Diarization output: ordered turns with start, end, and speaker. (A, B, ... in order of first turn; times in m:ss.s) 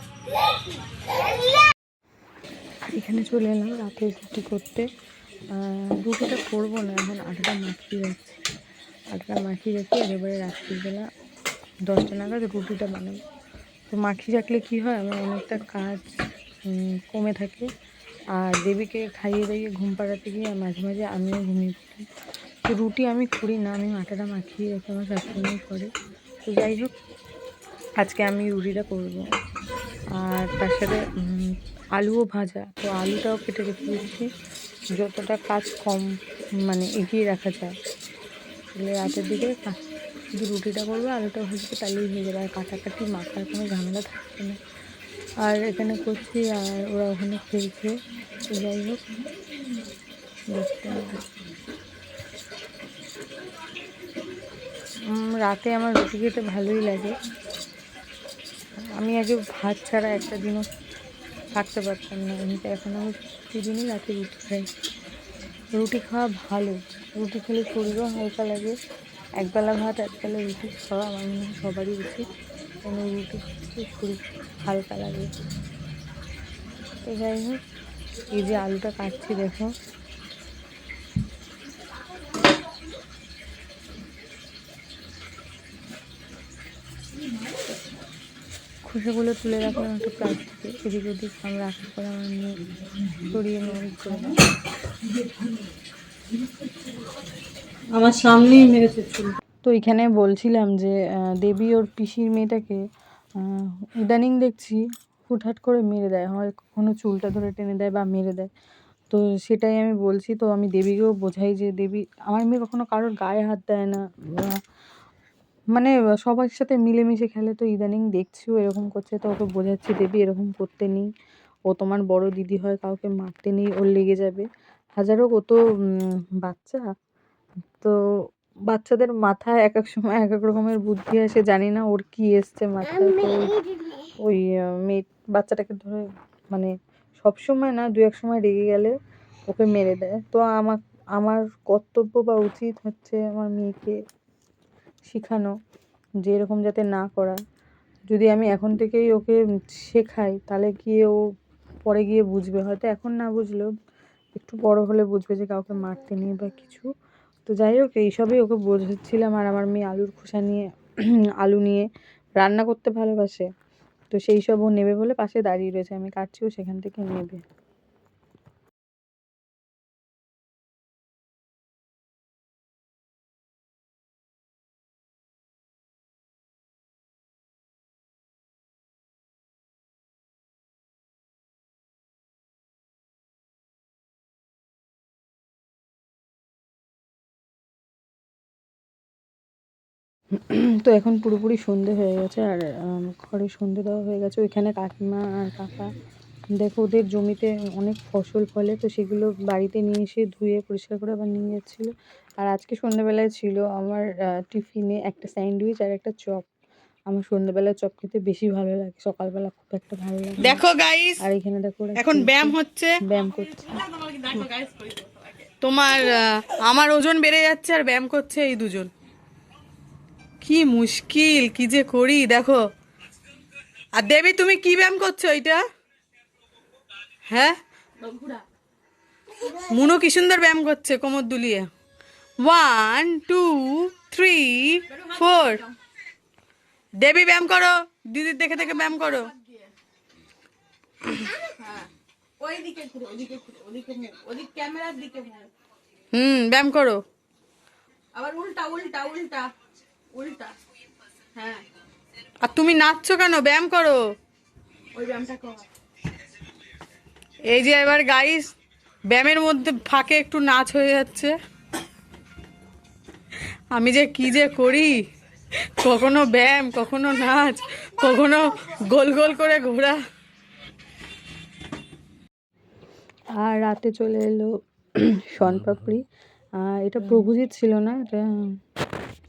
0:02.9-0:04.9 A
0:05.5-0:08.4 A
0:09.1-0:11.1 A
0:11.9-0:13.2 A
0:13.9-0:16.0 A
0:16.7-0:17.7 A
0:18.4-0:22.0 A
0:22.7-0:25.9 A
0:26.4-0:26.9 A
0:28.0-0:29.2 A
0:30.2-0:34.3 A
0:35.0-0:36.1 A
0:36.7-0:37.8 A
0:38.8-0:39.8 A
0:40.4-0:44.6 A
0:45.4-0:47.9 A
0:48.5-0:49.0 A
0:50.5-0:51.2 A
0:55.1-0:57.2 A
0:59.0-1:00.6 A
1:01.6-1:04.7 A
1:05.8-1:08.8 A
1:09.4-1:12.2 A
1:12.8-1:15.3 A
1:17.1-1:17.6 A
1:18.3-1:19.7 A
1:28.9-1:32.5 A
1:33.2-1:34.4 A
1:38.0-1:39.3 B
1:39.6-1:42.8 A
1:43.4-1:48.5 A
1:49.1-1:54.6 A
1:55.7-2:01.1 A
2:01.7-2:04.5 A
2:05.0-2:06.8 A
2:08.7-2:13.6 A
2:14.2-2:18.9 A
2:19.5-2:24.0 A
2:25.1-2:25.5 A
2:26.2-2:27.4 A
2:28.1-2:31.2 A
2:31.9-2:33.7 A
2:34.4-2:36.9 A
2:37.5-2:40.6 A
2:41.4-2:41.9 A
2:42.4-2:43.4 A
2:44.1-2:47.4 A
3:10.4-3:15.9 A
3:16.6-3:26.4 A
3:27.1-3:30.6 A
3:30.4-3:31.2 B
3:31.2-3:33.8 A
3:32.0-3:33.0 B
3:33.7-3:35.0 B
3:34.7-3:35.4 C
3:35.5-3:38.9 B
3:40.4-3:42.6 B
3:44.0-3:45.6 B
3:47.3-3:48.3 B
3:48.0-3:48.4 C
3:49.6-3:51.7 B
3:52.4-3:55.7 B
3:54.9-3:55.7 C
3:57.0-3:59.3 B
3:59.4-3:59.6 C
4:01.1-4:01.4 B
4:01.4-4:05.5 C
4:06.1-4:07.0 B
4:08.2-4:09.5 C
4:10.1-4:10.6 C
4:11.4-4:11.6 C
4:12.4-4:14.0 B
4:15.0-4:15.7 C
4:17.5-4:18.5 B
4:19.1-4:21.3 B
4:23.8-4:24.9 B
4:25.6-4:30.0 B
4:33.4-4:36.0 A
4:36.6-4:38.2 A